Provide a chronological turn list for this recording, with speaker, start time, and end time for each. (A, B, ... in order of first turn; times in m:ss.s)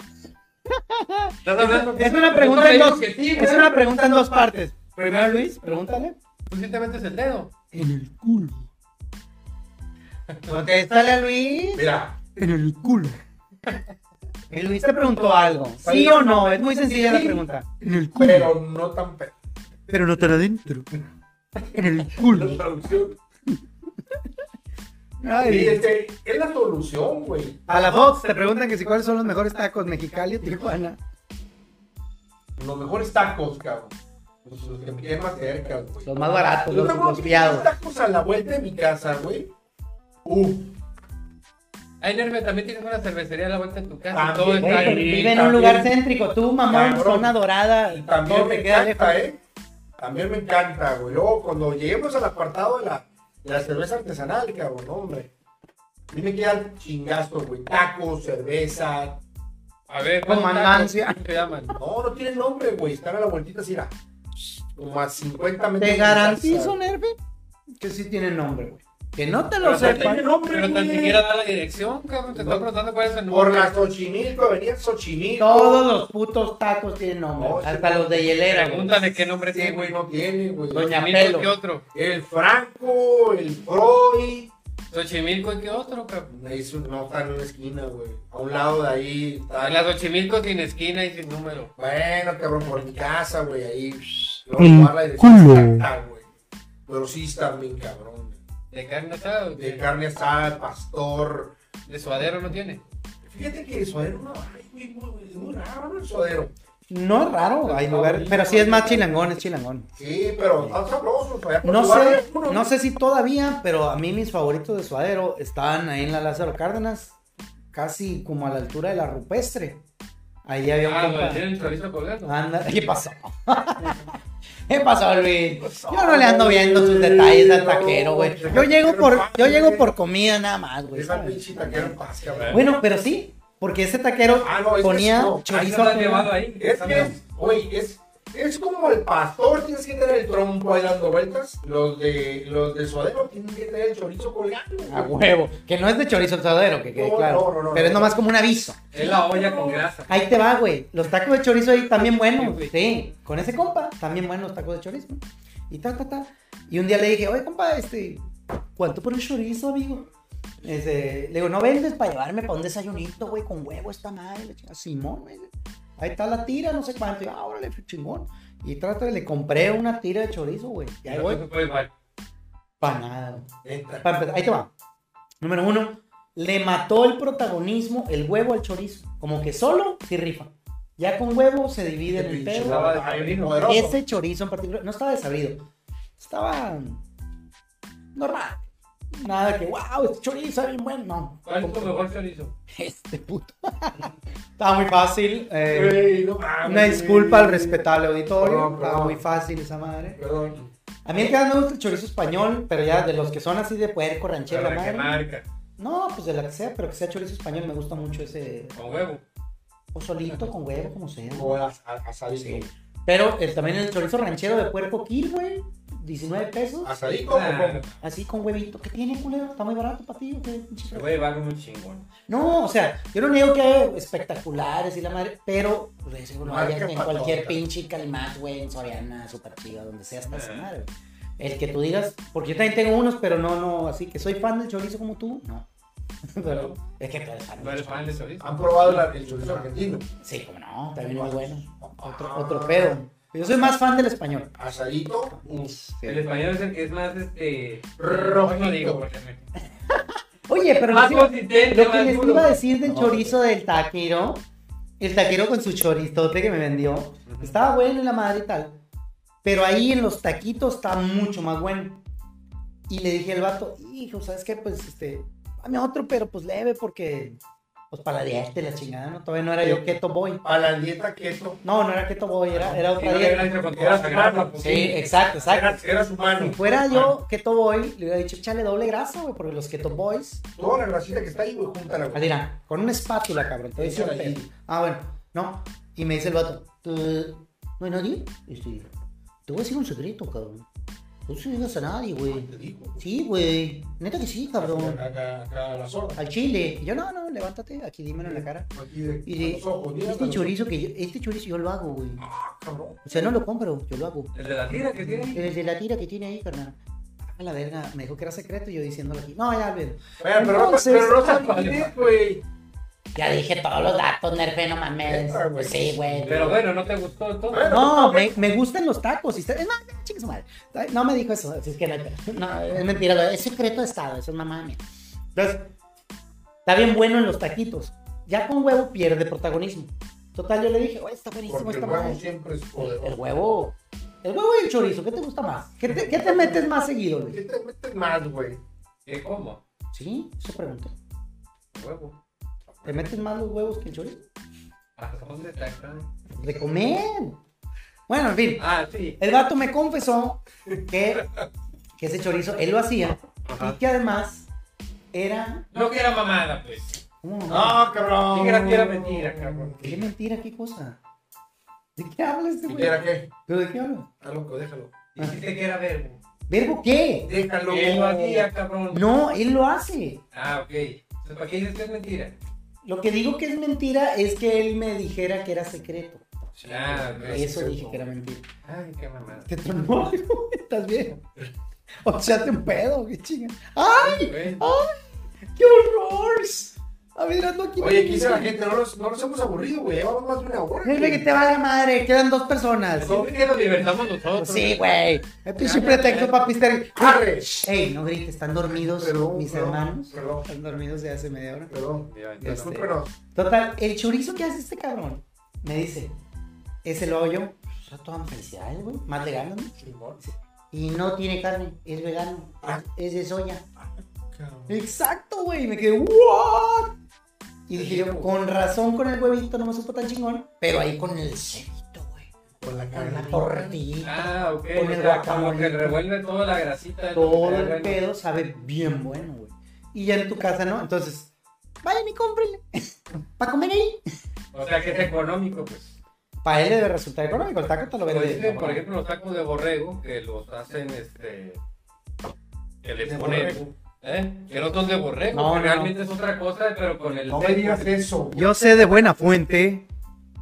0:00.7-0:06.2 A
0:01.4-0:03.8 B
0:06.5-0:07.5 B
0:07.7-0:08.7 A
0:10.5-0:13.2 A
0:11.7-0:12.2 C
0:14.5-0:18.5 A
0:15.8-0:17.4 C
0:18.0-0:19.3 C
0:19.9-0:20.9 A
0:21.6-0:22.6 A
0:22.2-0:23.2 C
0:25.2-0:25.9 A
0:25.4-0:27.6 C
0:27.7-0:31.0 A
0:32.6-0:39.5 C
0:36.0-0:37.7 A
0:40.2-0:40.8 C
0:42.0-0:45.1 B
0:44.1-0:45.9 C
0:44.6-0:49.2 A
0:46.7-0:49.4 C
0:50.0-0:55.3 C
0:56.1-0:59.2 C
0:59.9-1:01.8 B
1:00.2-1:01.3 A
1:01.8-1:03.9 C
1:04.8-1:06.8 C
1:05.8-1:07.2 A
1:07.8-1:10.2 A
1:09.6-1:11.2 C
1:09.7-1:13.8 B
1:12.3-1:12.7 C
1:13.3-1:15.9 C
1:15.4-1:19.1 A
1:17.4-1:18.2 C
1:18.5-1:20.0 B
1:19.5-1:21.0 C
1:20.7-1:21.5 A
1:20.8-1:21.8 B
1:21.9-1:24.5 C
1:24.9-1:26.3 B
1:26.3-1:29.8 C
1:29.5-1:31.7 B
1:31.8-1:36.3 C
1:34.6-1:35.8 A
1:36.9-1:38.4 C
1:38.7-1:39.9 B
1:39.6-1:41.6 C
1:41.9-1:42.8 B
1:43.2-1:46.5 C
1:46.9-1:49.9 A
1:47.6-1:49.1 B
1:50.0-1:52.7 C
1:51.6-1:57.1 A
1:57.7-1:59.8 A
2:00.5-2:01.5 A
2:00.8-2:02.4 B
2:02.2-2:17.2 A
2:05.6-2:09.9 C
2:10.9-2:12.7 C
2:12.3-2:12.6 B
2:14.4-2:15.6 C
2:15.5-2:17.1 B
2:16.6-2:25.2 C
2:24.9-2:38.2 A
2:27.0-2:28.2 C
2:28.9-2:30.1 B
2:29.0-2:29.8 C
2:32.2-2:32.7 B
2:38.8-2:40.1 A
2:40.6-2:51.4 A
2:51.1-2:51.9 B
2:52.8-2:53.5 A
2:53.6-2:54.1 C
2:54.0-2:54.7 A
2:55.4-3:02.9 A
3:02.1-3:04.0 C
3:02.6-3:03.8 B
3:03.6-3:05.7 A
3:06.2-3:07.0 A
3:08.2-3:12.0 A
3:11.5-3:12.5 B
3:12.7-3:16.1 A
3:15.7-3:17.8 C
3:16.6-3:20.2 A
3:18.4-3:19.2 C
3:20.2-3:20.6 C
3:21.0-3:25.2 A
3:24.5-3:25.5 B
3:25.8-3:28.8 A
3:28.8-3:29.2 B
3:29.9-3:31.6 A
3:31.3-3:32.7 C
3:32.4-3:41.1 A
3:36.8-3:37.8 C
3:37.3-3:38.0 B
3:40.9-3:42.1 B
3:42.3-3:55.7 A
3:46.4-3:47.6 C
3:50.3-3:50.7 B
3:56.3-3:58.2 A
3:56.4-3:56.8 B
3:57.6-3:59.4 B
3:58.4-4:00.1 C
4:00.2-4:04.5 A
4:01.0-4:03.0 C
4:04.6-4:05.7 C
4:05.3-4:06.4 A
4:06.1-4:09.4 B
4:08.0-4:09.1 C
4:09.9-4:14.4 A
4:10.9-4:12.6 B
4:12.8-4:13.4 C
4:15.0-4:18.8 A
4:17.3-4:17.6 B
4:19.4-4:22.0 A
4:22.9-4:27.4 A
4:27.9-4:30.4 A
4:29.6-4:31.6 C
4:31.6-4:33.5 A
4:32.5-4:35.4 B
4:33.6-4:34.7 C
4:34.6-4:40.4 A
4:35.3-4:37.1 C
4:40.6-4:42.3 C
4:42.1-4:48.9 A
4:43.8-4:44.5 C
4:49.5-4:50.7 A
4:51.3-4:55.0 A
4:52.3-4:53.0 C
4:54.6-4:56.2 C
4:56.2-4:58.7 A
4:58.2-5:00.6 C
4:59.3-5:02.2 A
5:02.2-5:03.4 C
5:03.1-5:04.3 A
5:04.4-5:05.4 B
5:05.1-5:11.7 A
5:10.2-5:12.4 C
5:11.1-5:12.0 B
5:13.2-5:16.6 A
5:15.0-5:16.6 C
5:16.2-5:17.7 B
5:17.5-5:18.4 C
5:17.7-5:24.8 A
5:25.4-5:25.7 A
5:26.7-5:32.2 A
5:31.5-5:33.2 C
5:32.8-5:37.4 A
5:35.9-5:38.6 C
5:39.1-5:39.6 B
5:39.9-5:40.9 A
5:41.7-5:42.2 B
5:42.8-5:43.1 C
5:42.8-5:44.2 A
5:45.0-5:46.1 B
5:46.4-5:47.4 A
5:48.1-5:48.6 A
5:48.6-5:49.2 B
5:49.2-5:51.3 A
5:52.0-5:54.5 A
5:53.5-5:53.8 B
5:55.1-5:55.7 A
5:55.7-5:57.0 B
5:57.2-5:57.8 A
5:57.5-5:59.9 C
5:58.3-5:59.9 B
5:59.8-6:01.0 A
6:02.0-6:04.1 A
6:02.7-6:03.3 C
6:04.2-6:05.1 C
6:05.2-6:06.2 B
6:06.5-6:07.3 A
6:07.2-6:08.5 C
6:07.7-6:09.1 B
6:08.9-6:10.2 A
6:10.3-6:12.4 B
6:12.8-6:16.2 A
6:16.6-6:18.2 C
6:16.6-6:17.5 B
6:17.3-6:18.5 A
6:18.6-6:19.5 B
6:19.5-6:21.2 A
6:22.0-6:28.5 A
6:23.9-6:24.6 B
6:27.8-6:31.3 C
6:30.8-6:33.2 A
6:33.0-6:34.8 B
6:33.0-6:33.9 C
6:34.4-6:41.7 A
6:35.6-6:36.5 B
6:37.0-6:37.7 C
6:38.8-6:40.5 C
6:41.7-6:43.2 C
6:42.1-6:42.8 B
6:42.5-6:46.2 A
6:46.8-6:49.8 A
6:49.8-6:50.2 C
6:50.7-6:53.6 A
6:53.8-6:54.8 C
6:54.7-6:57.0 A
6:57.7-7:02.3 A
6:57.8-6:58.2 B
7:02.6-7:03.8 C
7:02.9-7:06.0 A
7:04.0-7:08.0 B
7:07.2-7:11.3 A
7:11.8-7:14.1 A
7:14.5-7:16.0 B
7:16.4-7:18.8 A
7:18.1-7:21.6 B
7:22.8-7:27.9 B
7:23.0-7:23.7 C
7:25.3-7:25.9 A
7:27.3-7:28.5 C
7:28.4-7:29.9 A